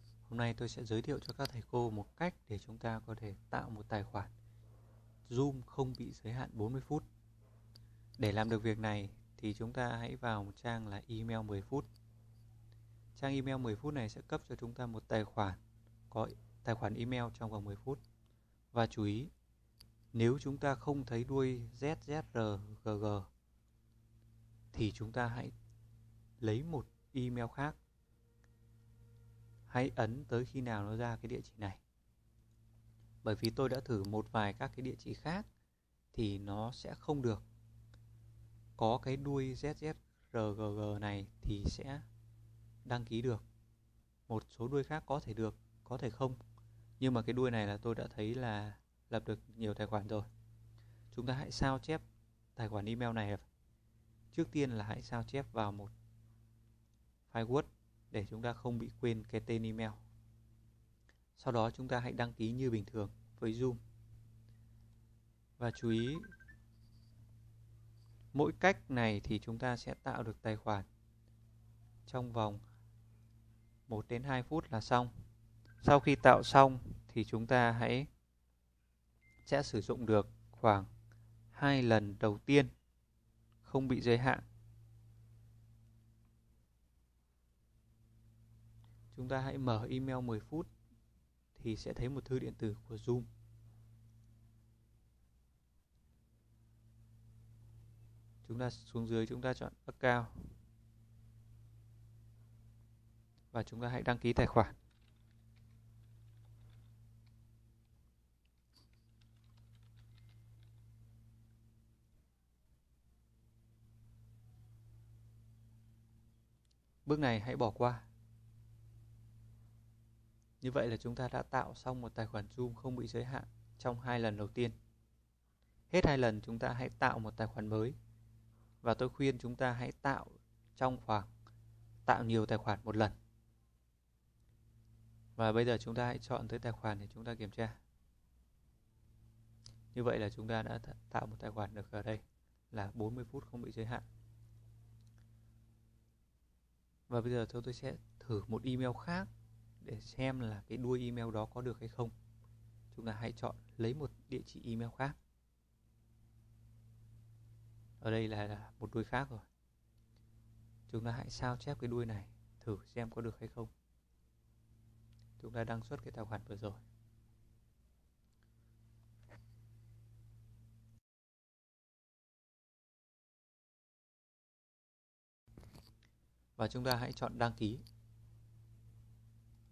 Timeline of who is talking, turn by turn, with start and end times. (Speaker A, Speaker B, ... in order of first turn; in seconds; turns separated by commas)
Speaker A: 0.3-4.3, Speaker A: 5.3-7.0, Speaker A: 8.2-11.9, Speaker A: 13.1-15.6, Speaker A: 16.1-18.0, Speaker A: 18.7-19.3, Speaker A: 20.1-23.3, Speaker A: 24.7-25.5, Speaker A: 26.4-27.8, Speaker A: 29.7-31.8, Speaker A: 33.2-35.5, Speaker A: 36.1-37.4, Speaker A: 38.8-42.0, Speaker A: 42.8-43.4, Speaker A: 44.3-46.4, Speaker A: 47.0-50.3, Speaker A: 51.1-52.0, Speaker A: 52.5-53.4, Speaker A: 54.3-55.9, Speaker A: 57.3-60.0, Speaker A: 61.4-63.8, Speaker A: 65.6-66.3, Speaker A: 68.3-70.9, Speaker A: 72.0-72.6, Speaker A: 73.9-75.1, Speaker A: 75.8-78.1, Speaker A: 79.5-80.9, Speaker A: 81.5-82.7, Speaker A: 83.6-84.4, Speaker A: 89.1-90.7, Speaker A: 91.5-93.3, Speaker A: 98.4-100.5, Speaker A: 103.5-104.7, Speaker A: 117.0-118.1, Speaker A: 120.6-124.7, Speaker A: 125.9-128.0, Speaker A: 128.8-131.3, Speaker A: 132.1-133.2, Speaker A: 135.4-137.8, Speaker A: 139.9-144.0, Speaker A: 147.1-149.3, Speaker A: 149.8-152.1, Speaker A: 152.9-155.2, Speaker A: 158.0-159.4, Speaker A: 160.9-163.7, Speaker A: 165.4-166.8, Speaker A: 176.6-177.8